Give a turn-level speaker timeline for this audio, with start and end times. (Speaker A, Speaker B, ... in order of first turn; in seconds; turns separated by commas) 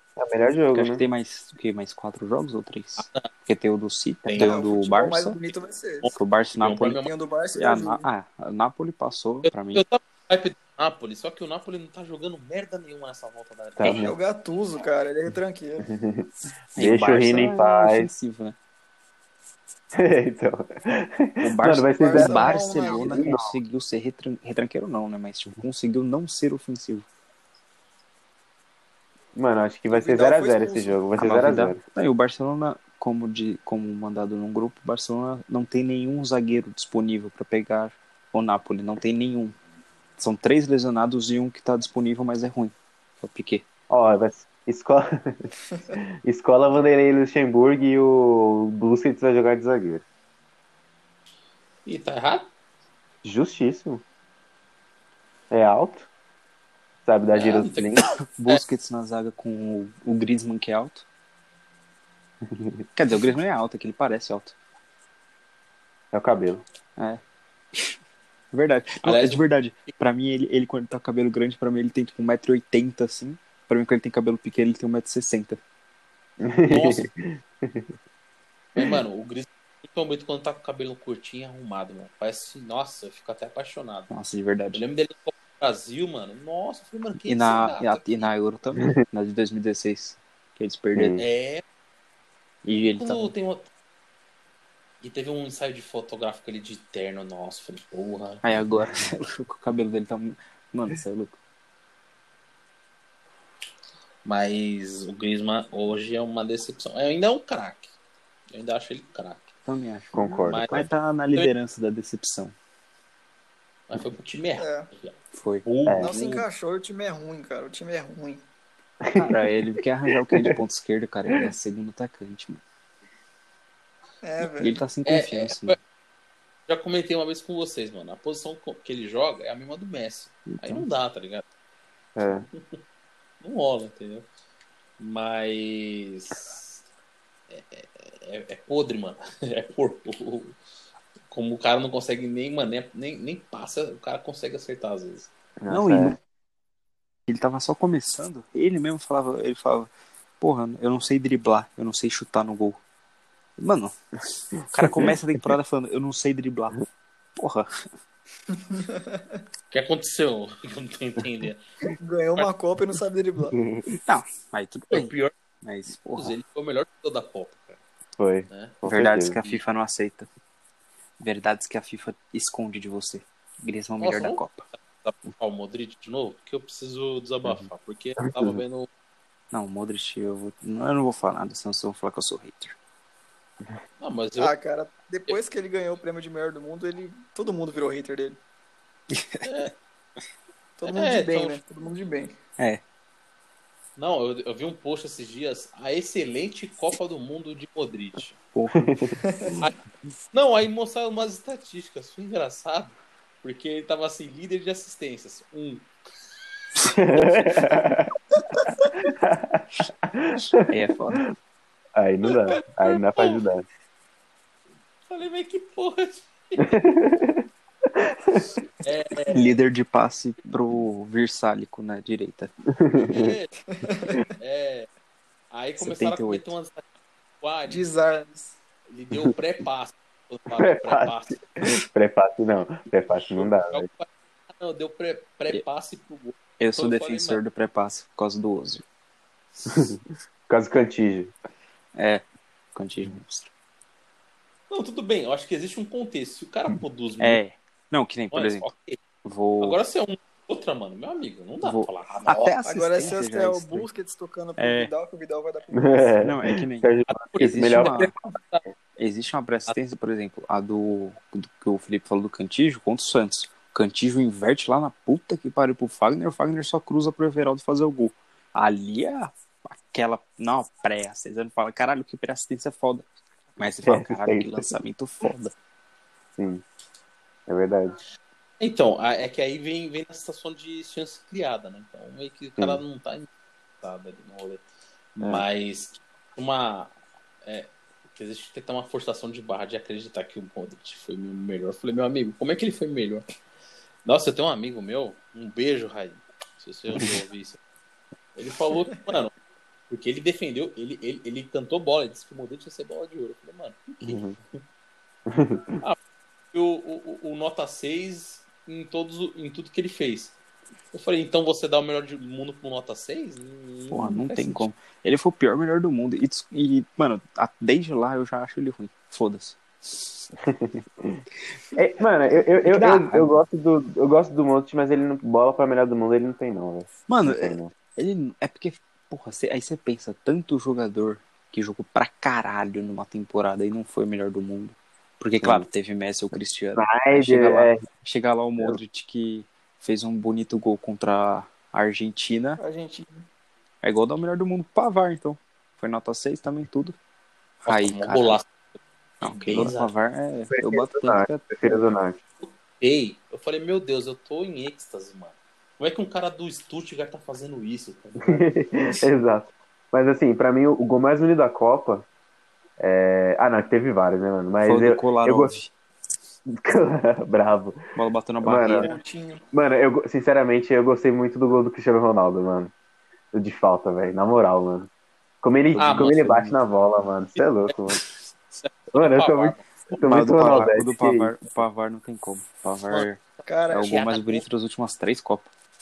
Speaker A: 0.2-1.0, Speaker B: 0.7-5.4, Speaker C: 3.0-3.3, Speaker C: 4.2-4.6, Speaker D: 4.4-6.1, Speaker C: 6.0-7.1, Speaker B: 6.2-7.0, Speaker D: 6.9-8.1, Speaker B: 7.5-9.8, Speaker C: 9.5-14.1, Speaker A: 13.8-14.2, Speaker B: 13.8-14.1, Speaker D: 14.0-15.9, Speaker A: 15.9-18.1, Speaker B: 16.8-18.6, Speaker A: 19.9-23.6, Speaker B: 21.4-27.1, Speaker D: 22.0-23.3, Speaker A: 29.4-31.8, Speaker D: 29.9-31.0, Speaker B: 31.2-39.5, Speaker B: 40.2-43.6, Speaker A: 43.9-50.0, Speaker C: 51.9-52.5, Speaker A: 53.2-54.0, Speaker A: 55.5-56.1, Speaker A: 57.1-58.1, Speaker C: 57.3-58.6, Speaker B: 58.3-61.0, Speaker A: 62.5-62.8, Speaker B: 63.0-64.5, Speaker A: 66.1-66.6, Speaker B: 68.5-75.6, Speaker C: 69.0-69.9, Speaker A: 76.4-77.9, Speaker C: 76.7-77.1, Speaker C: 78.8-84.1, Speaker B: 84.1-84.8, Speaker C: 84.7-88.3, Speaker B: 87.3-91.2, Speaker A: 91.0-91.2, Speaker C: 91.2-91.6, Speaker B: 92.6-93.3, Speaker C: 92.9-93.7, Speaker C: 95.0-98.4, Speaker B: 98.4-101.4, Speaker C: 104.2-107.9, Speaker C: 108.5-109.5, Speaker B: 109.7-112.5, Speaker A: 110.1-110.7, Speaker C: 110.5-111.5, Speaker C: 113.9-116.4, Speaker D: 114.6-114.9, Speaker B: 115.3-116.4, Speaker A: 115.9-116.2, Speaker D: 116.0-118.4, Speaker A: 119.0-119.4, Speaker B: 119.2-122.6, Speaker D: 124.2-124.8, Speaker B: 124.4-125.8, Speaker C: 125.1-125.8, Speaker C: 126.7-131.4, Speaker B: 130.5-130.9, Speaker A: 132.2-132.5, Speaker C: 132.3-132.8, Speaker C: 133.4-134.3, Speaker C: 135.0-136.8, Speaker C: 137.5-140.6, Speaker C: 141.3-145.3, Speaker A: 145.6-146.2, Speaker B: 145.7-146.2, Speaker B: 147.3-152.8, Speaker B: 153.6-154.0, Speaker B: 154.6-156.8, Speaker A: 154.8-155.1, Speaker B: 157.4-157.7, Speaker D: 158.5-159.4, Speaker C: 159.7-161.6, Speaker D: 162.0-163.6, Speaker B: 164.1-166.3, Speaker C: 164.9-165.3, Speaker C: 166.1-167.8, Speaker A: 168.2-169.4, Speaker C: 168.5-168.8, Speaker B: 168.9-170.3, Speaker B: 171.2-174.7, Speaker C: 174.0-174.4, Speaker C: 175.0-178.9, Speaker B: 179.5-182.8, Speaker C: 184.0-184.5, Speaker D: 184.4-188.4, Speaker B: 189.1-189.5, Speaker C: 189.4-189.7, Speaker D: 190.8-192.4, Speaker C: 190.8-191.6, Speaker C: 194.0-198.4, Speaker B: 198.5-199.2, Speaker A: 198.8-199.2, Speaker D: 199.2-199.6, Speaker C: 200.3-205.9, Speaker A: 206.8-208.1, Speaker C: 207.2-207.6, Speaker A: 209.0-211.2, Speaker B: 210.7-211.2, Speaker A: 212.0-213.6, Speaker C: 212.2-213.4, Speaker C: 215.1-216.8, Speaker A: 216.6-218.5, Speaker C: 218.8-219.6, Speaker B: 219.3-222.5, Speaker A: 222.7-223.3, Speaker C: 222.9-223.5, Speaker D: 223.7-224.3, Speaker C: 224.4-224.9, Speaker C: 225.5-226.9, Speaker B: 225.8-226.5, Speaker C: 227.4-227.9, Speaker D: 227.7-228.6, Speaker C: 228.9-231.4, Speaker A: 230.6-233.9, Speaker C: 233.3-237.4, Speaker B: 236.6-238.8, Speaker A: 239.7-240.0, Speaker A: 240.5-241.3, Speaker B: 241.9-242.2, Speaker B: 242.8-243.5, Speaker C: 244.7-247.4, Speaker B: 247.2-248.7, Speaker C: 248.3-249.0, Speaker B: 249.2-249.8, Speaker C: 249.6-252.5, Speaker B: 251.6-253.9, Speaker D: 252.6-256.1, Speaker B: 254.6-254.9, Speaker A: 255.7-258.1, Speaker B: 256.2-258.1, Speaker C: 257.1-258.6, Speaker B: 259.0-273.1, Speaker B: 273.6-275.5, Speaker A: 273.9-274.7, Speaker A: 276.4-276.6, Speaker A: 277.5-278.0, Speaker C: 278.6-284.6, Speaker C: 285.2-293.2, Speaker C: 294.1-297.6, Speaker C: 298.4-299.3, Speaker C: 299.9-304.6, Speaker A: 304.0-304.4, Speaker A: 305.3-305.8, Speaker C: 306.5-310.4, Speaker C: 310.9-314.7, Speaker B: 313.9-320.2, Speaker A: 320.4-321.2, Speaker A: 321.7-327.7, Speaker B: 322.6-323.4, Speaker B: 327.1-342.6, Speaker A: 336.8-337.9, Speaker D: 342.6-343.3, Speaker B: 343.8-347.0, Speaker B: 347.6-348.4, Speaker C: 347.7-348.5, Speaker B: 349.2-351.8, Speaker C: 349.3-349.9, Speaker A: 350.5-352.2, Speaker C: 352.4-358.6, Speaker A: 358.2-362.1, Speaker A: 362.8-365.5, Speaker B: 364.6-365.7, Speaker A: 366.5-367.8, Speaker B: 367.9-368.9, Speaker A: 368.4-368.9, Speaker D: 368.7-369.4, Speaker A: 369.5-372.7, Speaker A: 373.3-374.9, Speaker A: 375.4-378.0, Speaker B: 375.7-376.6, Speaker C: 375.8-376.4, Speaker C: 378.5-380.0, Speaker A: 378.9-381.4, Speaker B: 380.0-385.5, Speaker D: 383.5-384.0, Speaker C: 383.8-384.4